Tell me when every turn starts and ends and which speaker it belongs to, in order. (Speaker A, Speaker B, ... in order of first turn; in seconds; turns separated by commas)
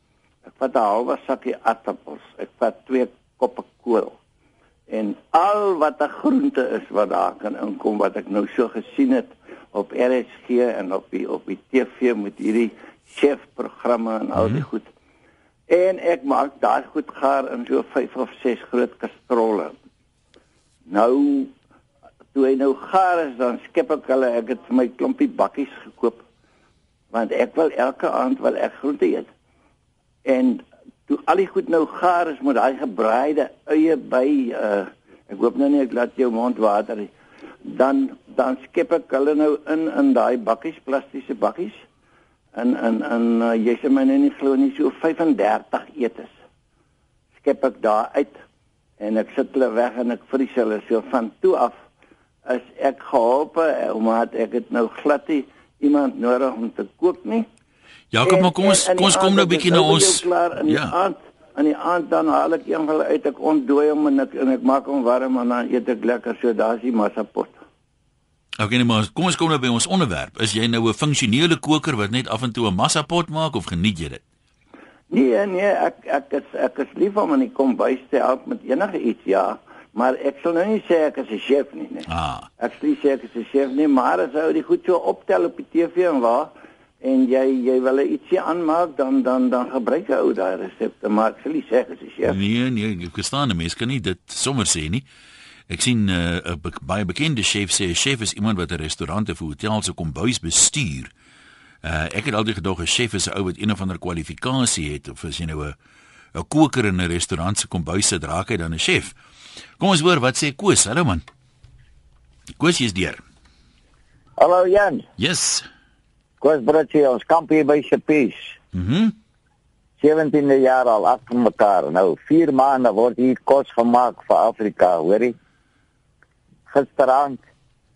Speaker A: 0.5-4.2, Speaker A: 4.9-14.9, Speaker B: 14.3-14.6, Speaker A: 15.7-19.8, Speaker A: 20.9-21.5, Speaker A: 22.3-26.2, Speaker A: 27.1-29.3, Speaker A: 30.2-37.1, Speaker A: 37.6-41.8, Speaker A: 42.5-46.3, Speaker A: 47.4-48.4, Speaker A: 49.0-51.8, Speaker A: 52.5-57.5, Speaker B: 58.1-60.9, Speaker A: 58.2-67.5, Speaker B: 68.6-74.2, Speaker A: 75.1-82.1, Speaker B: 82.1-82.5, Speaker A: 82.6-92.4, Speaker B: 92.2-95.0, Speaker B: 95.7-101.1, Speaker B: 101.8-105.8, Speaker B: 106.3-109.2, Speaker B: 109.8-111.2, Speaker B: 112.6-113.2, Speaker C: 114.4-115.1, Speaker B: 115.2-115.7, Speaker C: 116.4-118.5, Speaker B: 118.7-119.1, Speaker C: 120.0-125.3, Speaker C: 126.7-127.4